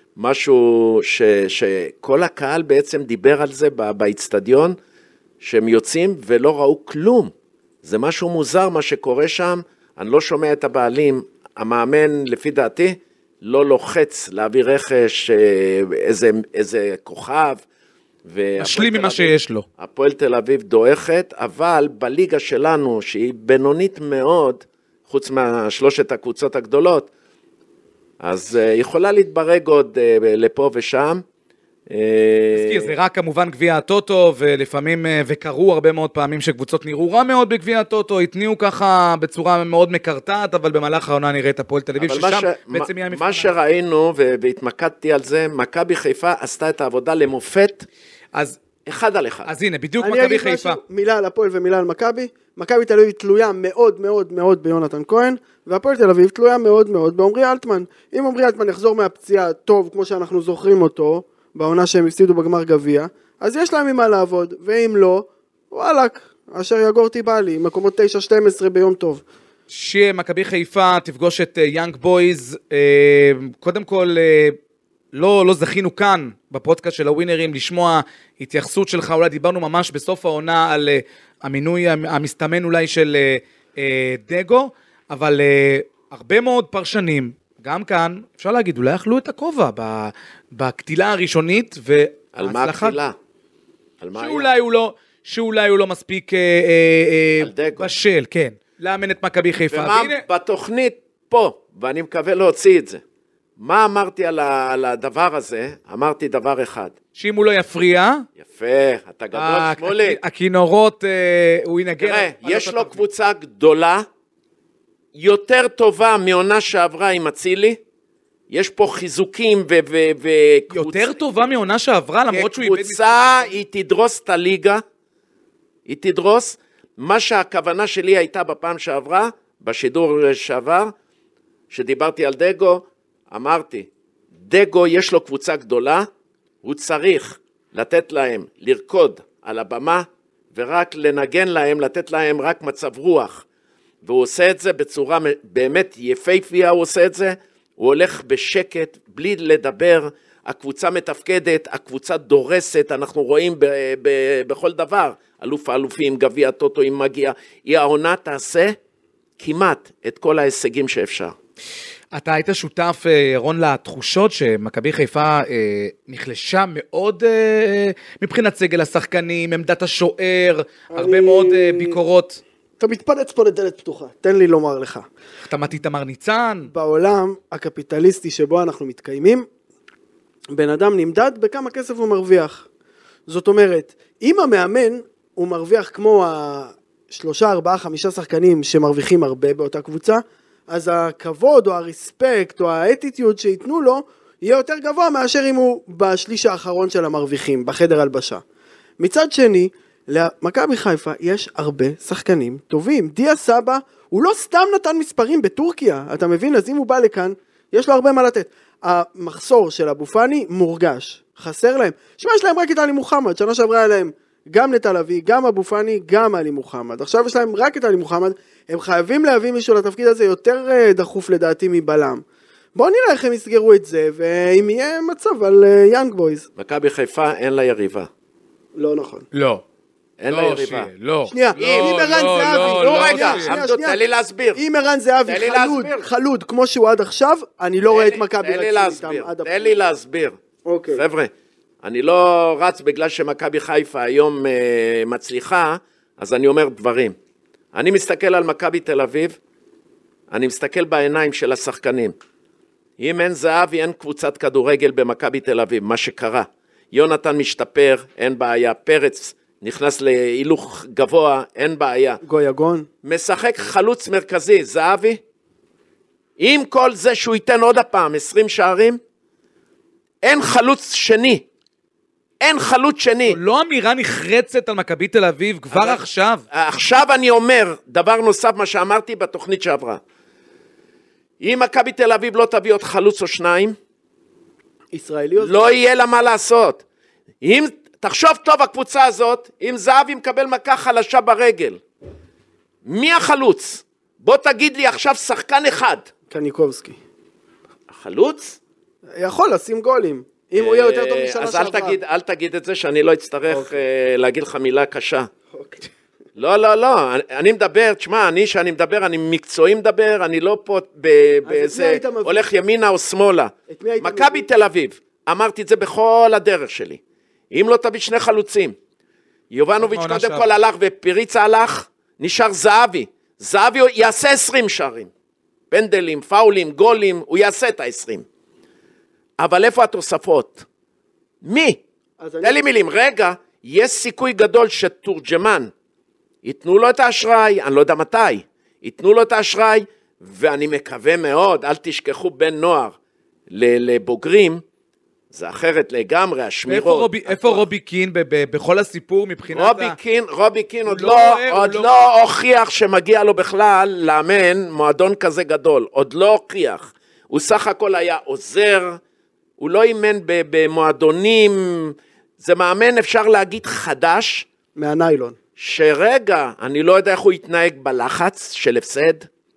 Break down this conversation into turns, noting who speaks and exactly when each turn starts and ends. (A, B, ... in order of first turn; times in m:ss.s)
0:00.2-0:04.8 A
0:05.4-0:17.6 A
0:18.2-0:27.1 A
0:18.6-0:19.7 B
0:28.2-0:31.2 A
0:31.9-0:32.9 A
0:32.5-0:43.5 B
0:42.0-0:47.9 A
0:48.3-0:48.6 B
0:48.8-0:49.5 A
0:49.5-0:50.8 B
0:50.0-1:09.2 C
1:09.7-1:14.6 B
1:15.1-1:33.0 B
1:32.4-1:33.2 A
1:34.0-1:34.5 A
1:34.2-1:40.2 B
1:37.4-1:37.9 A
1:39.7-1:43.0 A
1:43.6-1:46.9 A
1:47.2-1:48.2 B
1:48.4-1:50.2 A
1:49.3-1:53.0 B
1:52.0-1:54.1 A
1:55.1-1:57.8 A
1:58.5-2:01.2 A
2:00.7-2:03.6 B
2:02.3-2:04.8 A
2:05.9-2:10.9 A
2:11.7-2:13.9 A
2:14.4-2:16.1 A
2:16.6-2:23.4 A
2:24.0-2:38.8 A
2:39.4-2:41.4 A
2:42.1-2:52.4 B
2:50.9-2:52.0 C
2:52.8-2:55.1 C
2:55.4-2:56.7 B
2:56.7-2:59.5 C
3:00.5-3:02.7 C
3:03.3-3:18.4 C
3:19.0-3:42.2 C
3:42.8-3:46.5 C
3:46.6-3:48.1 A
3:48.8-3:49.3 C
3:49.3-3:49.6 B
3:50.2-3:50.9 A
3:50.3-3:53.6 B
3:51.3-3:54.0 C
3:51.6-3:54.6 A
3:54.6-3:59.7 C
3:55.3-3:56.1 A
3:57.9-4:00.4 A
4:00.6-4:01.0 C
4:00.9-4:07.2 A
4:07.7-4:09.4 A
4:10.3-4:12.2 A
4:13.0-4:22.2 A
4:22.2-4:22.9 C
4:23.0-4:25.2 A
4:26.4-4:29.0 A
4:30.2-4:31.4 A
4:32.4-4:33.4 A
4:33.3-4:36.4 B
4:35.7-4:40.0 A
4:41.4-4:43.8 A
4:44.9-4:45.7 C
4:45.4-4:46.8 A
4:47.4-4:51.8 A
4:52.8-4:56.1 A
4:56.3-4:57.0 C
4:57.9-4:58.6 A
4:59.2-5:02.0 C
5:00.6-5:05.3 A
5:03.5-5:03.8 C
5:05.5-5:05.8 C
5:06.4-5:17.0 A
5:11.5-5:12.4 C
5:13.7-5:14.5 C
5:17.5-5:18.8 A
5:19.5-5:25.1 A
5:19.8-5:20.5 B
5:25.7-5:28.2 A
5:29.4-5:30.6 A
5:31.4-5:31.8 A
5:32.2-5:32.6 C
5:32.4-5:35.7 A
5:36.4-5:43.0 A
5:43.5-5:44.6 A
5:45.3-5:47.6 A
5:46.7-5:50.0 B
5:49.5-5:59.0 A
5:50.9-5:51.9 B
5:59.6-6:04.5 A
6:04.8-6:05.4 C
6:05.6-6:09.3 A